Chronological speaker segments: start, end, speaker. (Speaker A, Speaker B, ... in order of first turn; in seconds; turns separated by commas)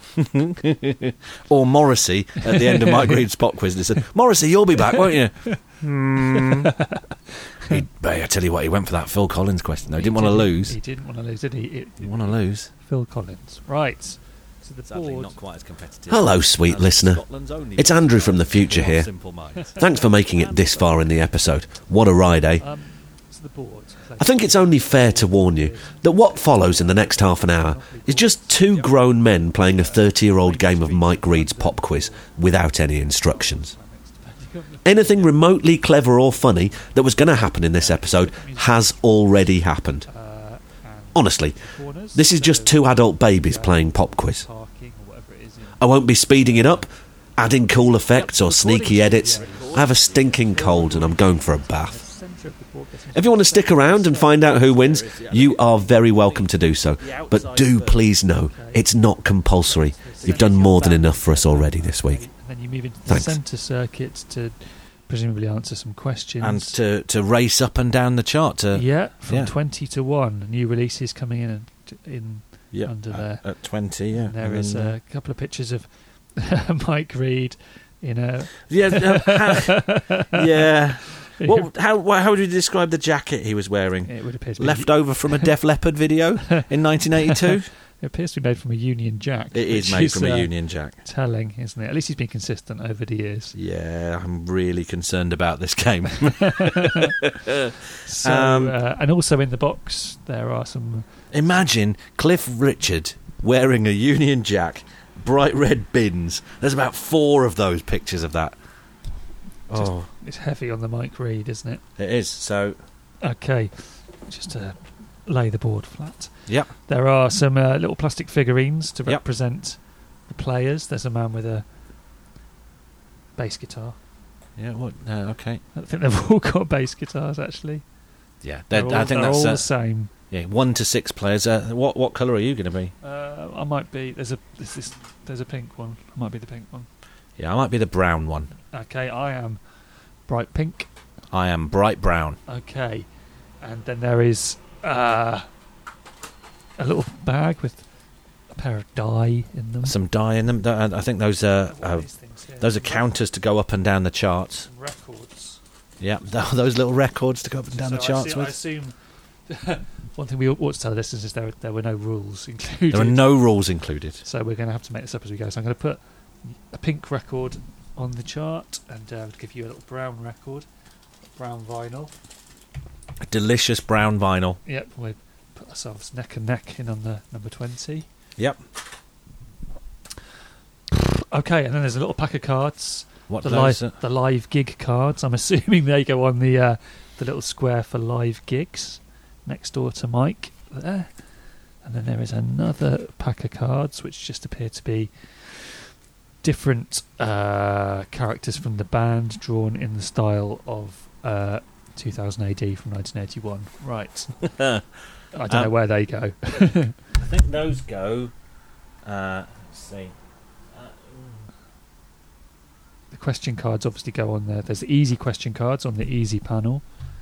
Speaker A: 0.1-6.7, Speaker B: 2.4-3.2, Speaker B: 4.8-5.6, Speaker B: 6.3-7.8, Speaker A: 7.7-10.8, Speaker B: 9.9-15.4, Speaker A: 12.0-12.7, Speaker A: 14.9-19.8, Speaker C: 16.1-17.2, Speaker C: 17.8-19.1, Speaker B: 19.6-21.3, Speaker C: 19.8-22.6, Speaker B: 22.6-35.6, Speaker C: 24.2-33.7, Speaker C: 34.8-40.1, Speaker B: 36.9-46.8, Speaker C: 41.1-41.5, Speaker C: 42.1-44.4, Speaker C: 45.8-46.9, Speaker C: 47.4-52.0, Speaker B: 47.9-56.7, Speaker A: 48.8-51.2, Speaker C: 53.1-62.2, Speaker A: 54.6-58.1, Speaker B: 57.6-66.7, Speaker A: 60.1-60.9, Speaker C: 63.0-63.4, Speaker A: 66.4-69.5, Speaker B: 68.7-73.5, Speaker A: 72.7-75.0, Speaker B: 74.1-81.7, Speaker A: 78.7-87.7, Speaker B: 84.0-85.5, Speaker B: 87.2-93.5, Speaker A: 89.5-91.0, Speaker A: 93.5-98.8, Speaker B: 96.2-97.1, Speaker B: 98.0-101.1, Speaker A: 101.3-108.5, Speaker A: 109.7-110.1, Speaker B: 109.7-111.8, Speaker A: 112.0-112.8, Speaker B: 113.2-121.7, Speaker A: 116.5-116.7, Speaker B: 123.3-124.0, Speaker A: 124.6-125.6, Speaker B: 125.7-127.8, Speaker A: 128.4-129.7, Speaker B: 128.7-130.1, Speaker A: 130.3-132.9, Speaker B: 133.0-136.9, Speaker A: 137.4-138.5, Speaker B: 138.7-139.6, Speaker B: 140.3-140.9, Speaker A: 141.3-142.4, Speaker B: 142.5-143.1, Speaker B: 143.6-145.5, Speaker B: 146.8-147.8, Speaker B: 148.5-150.0, Speaker A: 149.8-152.1, Speaker B: 151.6-153.1, Speaker A: 152.6-154.7, Speaker B: 154.6-155.6, Speaker A: 156.0-158.6, Speaker B: 157.7-158.9, Speaker B: 159.5-163.3, Speaker A: 162.9-164.2, Speaker B: 164.2-170.7, Speaker B: 171.3-172.1, Speaker A: 173.2-174.6, Speaker B: 174.6-178.1, Speaker B: 180.9-191.1, Speaker A: 183.3-183.9, Speaker B: 191.8-195.9, Speaker B: 196.4-204.3, Speaker A: 204.4-204.8, Speaker B: 205.3-206.9, Speaker A: 207.1-208.3, Speaker A: 209.0-210.1, Speaker A: 210.7-211.5, Speaker B: 213.1-216.8